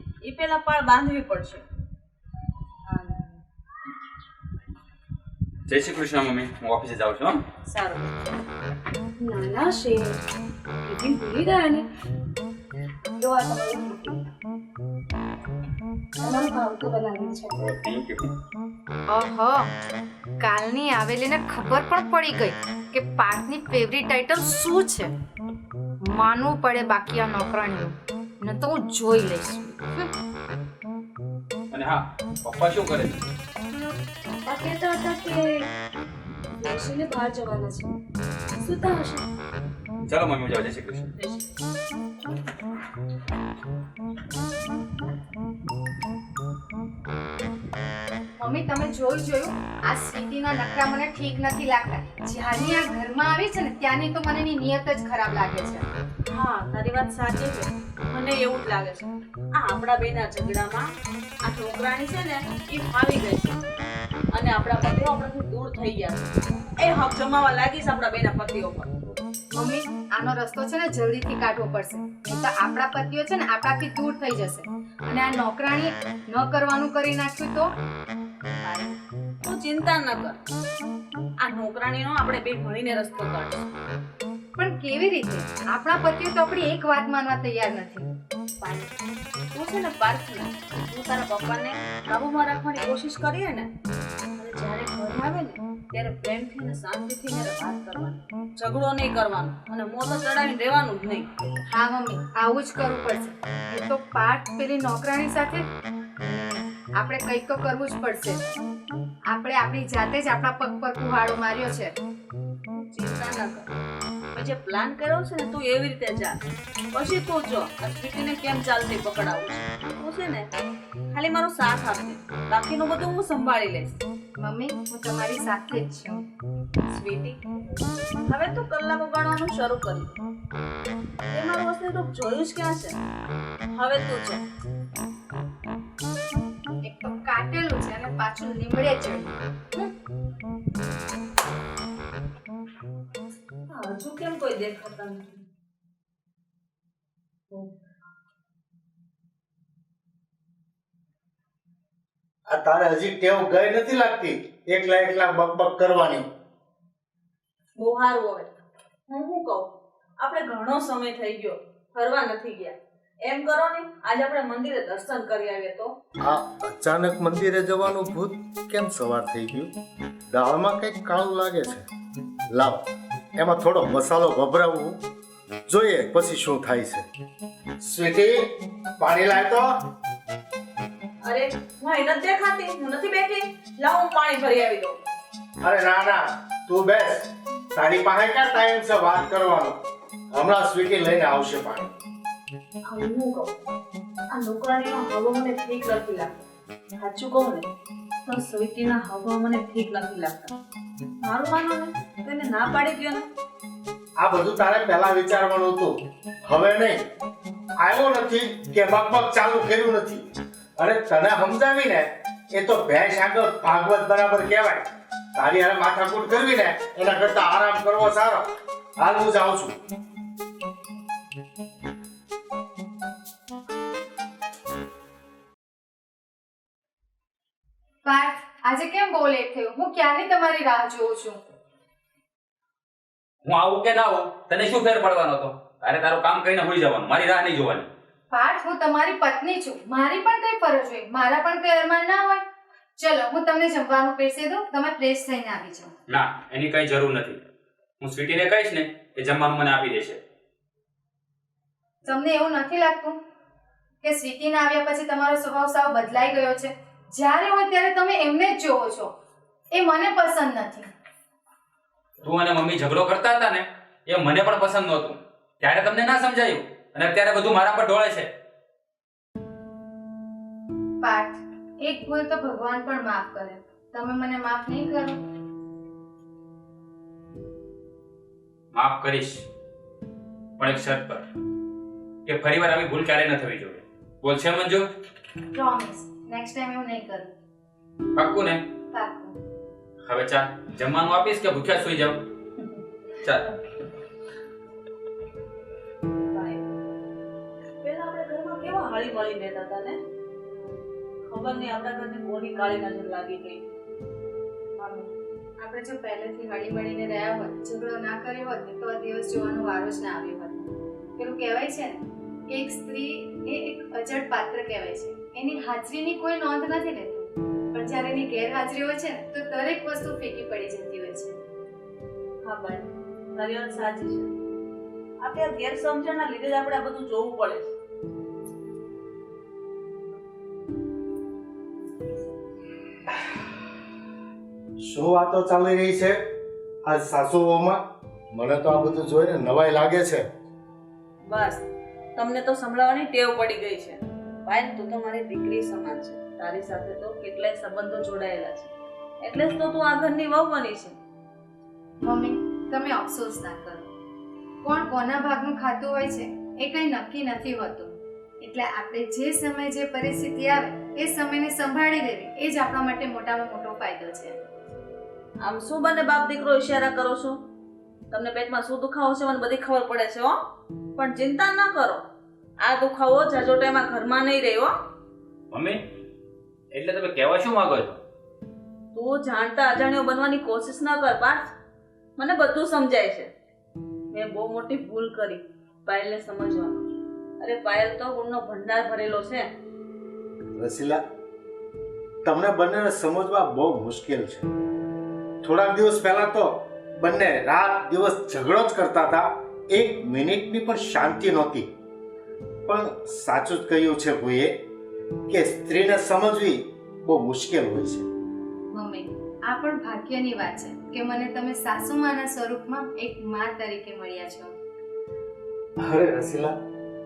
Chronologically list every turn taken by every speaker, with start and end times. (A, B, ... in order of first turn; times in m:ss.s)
0:00.2-0:01.6 A
0:02.9-0:03.4 B
0:05.7-0:07.4 C
0:07.7-0:08.0 B
0:09.2-0:10.2 D
0:10.8-0:11.8 D
0:13.1-0:14.2 D
0:16.2-0:17.5 D
0:17.6-0:18.3 C
0:19.1-0:19.7 B
0:20.4-0:25.1 B
0:26.0-0:30.1 B
0:31.7-0:33.3 C
0:33.7-0:35.7 D
0:36.6-0:38.0 D
0:38.6-0:39.2 D
0:40.0-0:41.1 C
0:41.1-0:41.5 A
0:48.4-0:55.8 B
0:56.3-1:00.8 A
1:01.4-1:03.6 A
1:04.3-1:09.0 A
1:09.5-1:17.7 B
1:18.6-1:20.4 A
1:21.4-1:23.6 A
1:24.6-1:28.1 B
1:28.6-1:29.0 A
1:29.5-1:33.7 A
1:34.4-1:41.3 A
1:41.7-1:45.7 B
1:46.2-1:48.5 B
1:49.3-1:52.0 B
1:52.9-1:53.6 A
1:54.3-1:56.4 A
1:56.9-2:00.5 A
2:01.1-2:04.0 A
2:04.4-2:06.2 B
2:06.9-2:07.4 A
2:08.3-2:10.2 A
2:11.3-2:13.0 A
2:13.7-2:14.4 A
2:16.8-2:19.4 B
2:23.7-2:25.4 A
2:32.5-2:36.2 E
2:37.8-2:38.5 A
2:39.1-2:45.9 A
2:46.2-2:49.7 E
2:50.3-2:51.8 E
2:52.5-2:52.8 E
2:53.4-2:55.0 E
2:55.7-2:57.1 E
2:57.8-2:59.9 E
3:01.3-3:05.0 A
3:05.6-3:09.8 E
3:10.3-3:11.9 E
3:12.9-3:13.5 A
3:14.3-3:16.3 A
3:17.0-3:17.7 A
3:18.2-3:20.5 A
3:21.2-3:23.2 A
3:24.2-3:27.0 E
3:27.8-3:38.4 E
3:39.0-3:39.7 E
3:48.0-3:51.4 B
3:53.4-3:57.9 C
3:58.3-4:02.4 B
4:03.0-4:05.9 B
4:06.1-4:07.4 C
4:08.0-4:10.2 C
4:12.0-4:13.2 B
4:14.0-4:19.1 B
4:19.7-4:20.9 B
4:22.2-4:28.3 C
4:31.0-4:35.2 B
4:38.7-4:39.5 C
4:40.6-4:41.2 C
4:42.2-4:44.9 C
4:45.5-4:47.3 B
4:48.1-4:48.6 C
4:48.9-4:49.3 B
4:50.0-4:52.2 C
4:53.2-4:53.5 C
4:56.3-4:56.6 A
4:57.8-5:00.0 A
5:01.3-5:03.6 A
5:04.8-5:21.4 B
5:22.4-5:24.3 A
5:25.2-5:27.7 A
5:34.8-5:36.2 E
5:36.8-5:37.8 E
5:38.3-5:40.3 E
5:41.3-5:41.6 A
5:42.2-5:48.7 A
5:49.2-5:51.0 A
5:52.0-5:53.8 B
5:54.6-6:04.4 B
6:05.5-6:07.4 A
6:08.1-6:10.4 A
6:11.0-6:12.0 A
6:12.6-6:14.7 A
6:15.5-6:15.8 C
6:16.7-6:18.0 C
6:18.9-6:21.5 A
6:22.2-6:23.3 A
6:24.1-6:29.4 A
6:30.5-6:31.0 E
6:32.2-6:34.5 E
6:35.4-6:41.7 E
6:42.7-6:44.6 E
6:45.3-6:48.0 E
6:48.7-6:54.5 B
6:55.8-6:56.5 E